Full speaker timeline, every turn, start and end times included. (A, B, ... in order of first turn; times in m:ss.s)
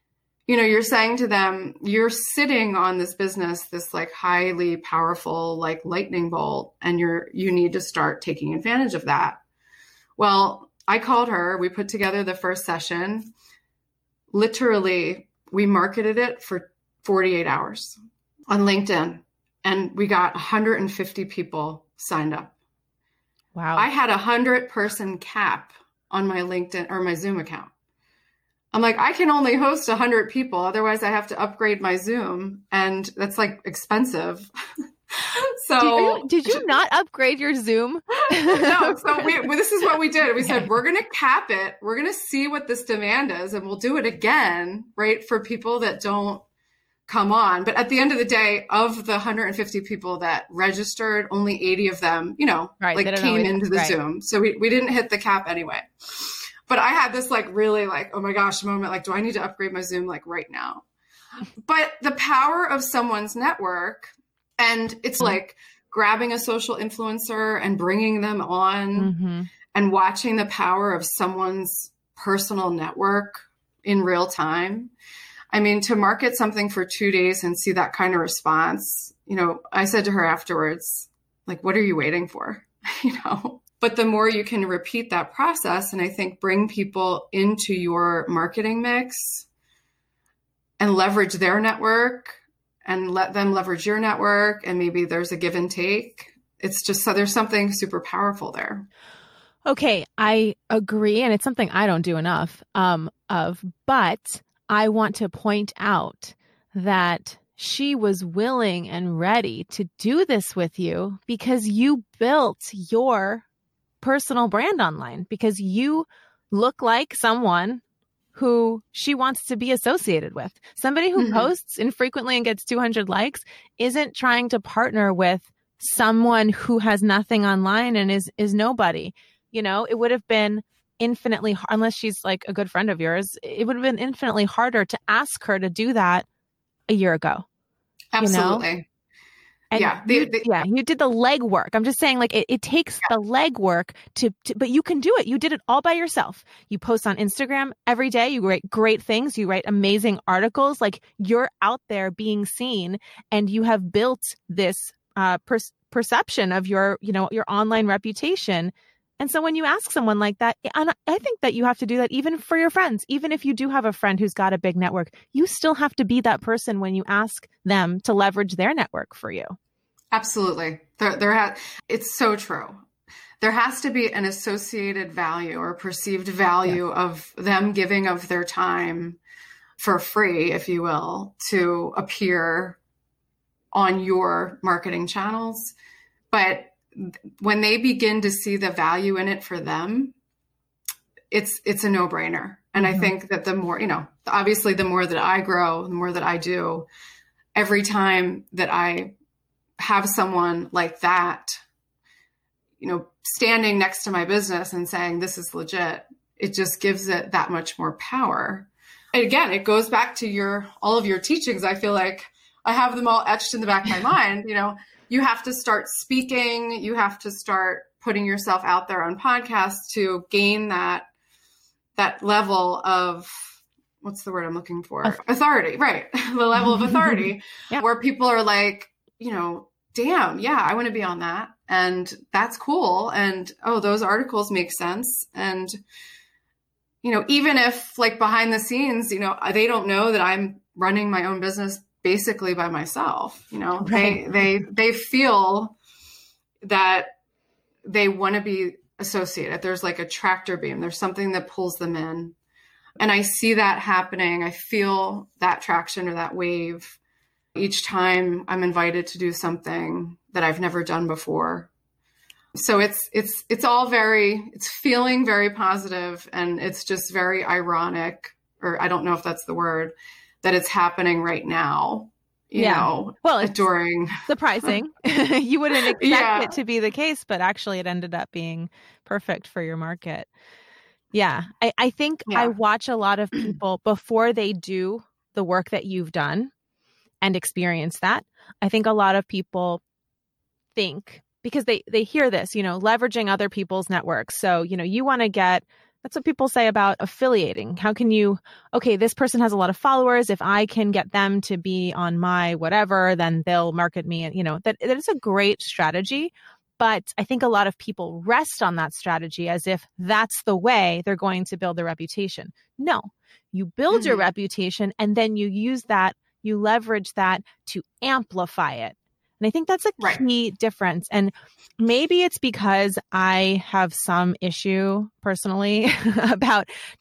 0:00.5-0:09.4 A
0:10.2-0:13.3 A
0:14.3-0:18.0 A
0:18.5-0:22.6 A
0:23.6-0:23.9 B
0:23.8-0:27.7 A
0:28.7-0:34.5 A
0:35.1-0:36.6 A
0:35.8-0:39.4 B
0:38.3-0:46.4 A
0:47.1-1:00.8 A
0:52.8-0:54.0 B
1:01.6-1:09.1 A
1:09.0-1:09.5 B
1:09.7-1:14.9 A
1:15.5-1:29.5 A
1:30.8-1:38.9 A
1:39.7-1:53.4 B
1:54.0-1:57.8 B
1:58.3-2:16.2 B
2:01.2-2:01.5 A
2:16.9-2:17.4 B
2:18.1-2:18.9 A
2:18.2-2:18.6 B
2:19.7-2:49.6 B
2:19.8-2:20.6 A
2:50.1-2:52.8 A
2:53.4-2:59.2 A
2:59.8-3:02.8 A
3:03.7-3:05.7 A
3:06.3-3:10.2 A
3:11.3-3:16.9 A
3:12.8-3:13.1 B
3:17.6-3:19.1 A
3:19.8-3:21.6 A
3:22.8-3:41.1 A
3:42.0-3:55.8 A
3:46.6-3:47.8 B
3:57.0-4:05.8 A
4:03.8-4:04.3 B
4:06.6-4:07.2 A
4:07.8-4:12.4 A
4:13.0-4:17.0 A
4:17.6-4:21.7 A
4:22.6-4:34.8 A
4:32.6-4:33.6 B
4:34.3-4:40.3 B
4:35.9-4:36.6 A
4:41.1-4:46.5 B
4:47.2-4:49.8 B
4:50.8-5:26.7 B
5:13.9-5:14.3 A